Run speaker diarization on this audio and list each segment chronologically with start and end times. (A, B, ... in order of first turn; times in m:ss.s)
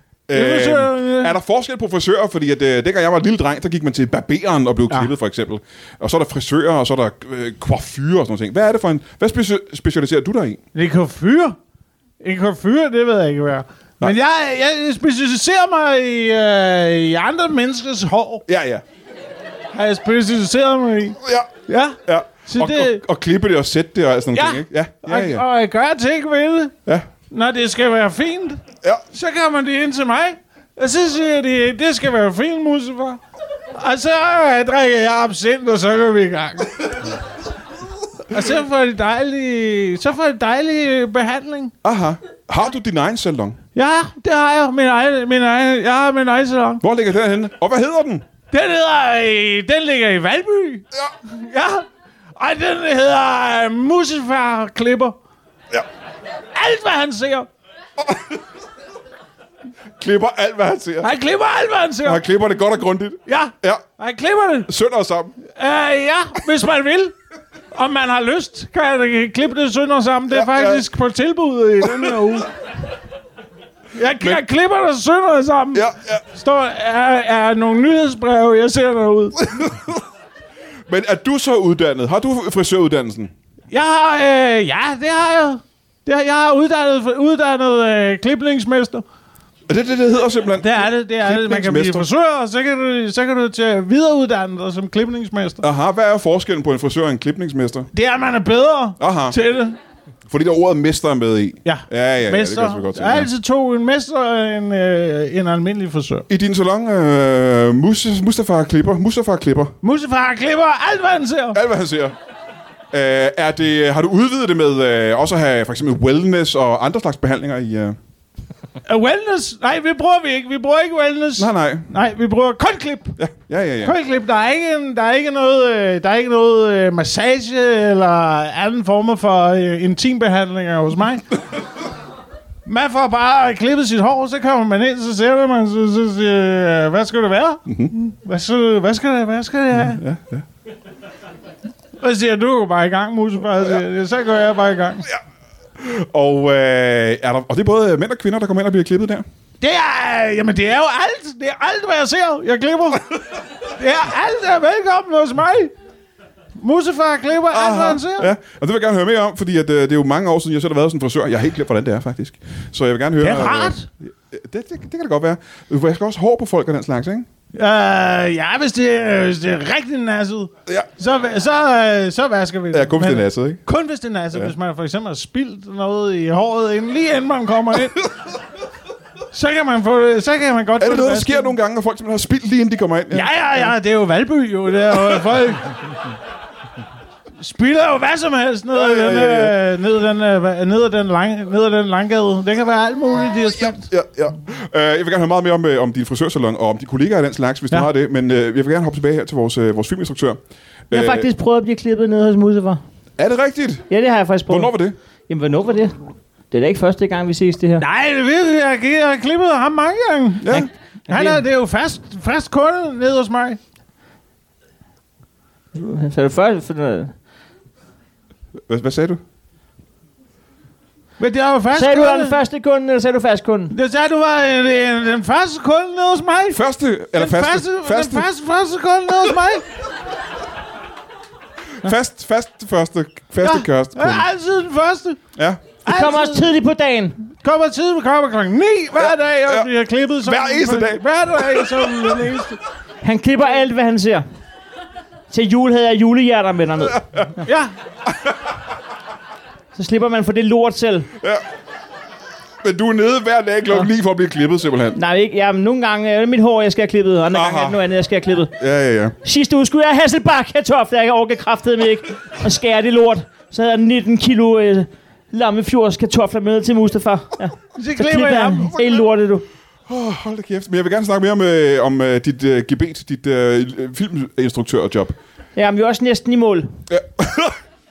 0:00.3-0:10.6 A
0:00.3-0:01.4 B
0:10.7-0:11.6 B
0:12.2-0:18.4 B
0:18.4-0:18.8 A
0:19.7-0:23.0 B
0:21.2-0:21.5 A
0:22.0-0:25.4 A
0:24.3-0:26.7 B
0:27.3-0:28.6 B
0:29.1-0:33.2 B
0:33.8-0:37.2 B
0:38.3-0:41.7 B
0:41.8-0:43.6 A
0:43.7-0:46.8 B
0:46.8-0:48.2 A
0:48.5-0:51.8 B
0:52.4-0:55.1 B
0:56.5-0:57.5 B
0:58.0-0:58.4 A
1:00.0-1:01.1 A
1:01.0-1:02.2 B
1:02.0-1:03.8 A
1:03.3-1:04.7 B
1:04.7-1:05.4 A
1:05.5-1:07.1 B
1:07.7-1:12.5 B
1:10.3-1:10.8 A
1:11.8-1:12.3 A
1:13.9-1:19.7 B
1:15.7-1:16.2 A
1:19.4-1:20.0 A
1:20.9-1:23.3 A
1:23.7-1:29.0 B
1:29.7-1:32.1 A
1:30.6-1:35.6 B
1:35.6-1:37.9 A
1:37.9-1:39.8 B
1:39.0-1:39.4 A
1:40.3-1:43.3 A
1:41.6-1:46.2 B
1:46.3-1:49.7 A
1:49.8-1:51.6 B
1:51.5-1:52.2 A
1:52.9-1:58.0 A
1:58.8-2:03.2 B
2:01.4-2:01.9 A
2:03.2-2:04.0 A
2:03.8-2:11.3 B
2:12.6-2:20.0 B
2:17.7-2:17.9 A
2:19.8-2:20.4 A
2:22.0-2:25.0 B
2:25.8-2:29.2 A
2:29.6-2:35.7 B
2:36.6-2:38.3 B
2:37.5-2:47.3 A
2:43.2-2:43.9 B
2:47.5-2:58.1 B
2:52.7-2:53.6 A
2:59.3-3:01.5 B
3:00.8-3:03.3 A
3:03.1-3:05.8 B
3:07.4-3:13.8 B
3:08.7-3:09.6 A
3:13.6-3:20.4 A
3:20.9-3:21.3 A
3:20.9-3:22.8 C
3:23.2-3:23.9 A
3:23.9-3:24.7 C
3:24.5-3:25.0 A
3:25.3-3:25.9 C
3:26.5-3:27.8 C
3:27.8-3:33.6 B
3:30.4-3:30.7 A
3:30.5-3:31.4 C
3:35.7-3:37.1 C
3:38.7-3:39.2 A
3:41.2-3:42.4 B
3:41.7-3:43.7 C
3:43.7-3:49.7 B
3:46.5-3:48.3 A
3:51.8-3:54.2 A
3:53.4-3:55.2 B
3:55.4-3:55.6 A
3:55.8-3:56.5 B
3:55.8-3:57.3 C
3:57.4-4:02.6 B
3:58.9-3:59.7 A
4:00.2-4:02.3 A
4:03.0-4:04.2 C
4:05.3-4:07.5 C
4:07.4-4:07.7 B
4:08.0-4:08.5 A
4:09.7-4:11.1 C
4:12.6-4:15.0 A
4:14.9-4:18.5 C
4:17.3-4:17.8 A
4:18.6-4:19.2 A
4:19.2-4:29.4 C
4:27.7-4:29.0 B
4:29.9-4:35.2 A
4:35.6-4:36.8 C
4:36.9-4:37.6 A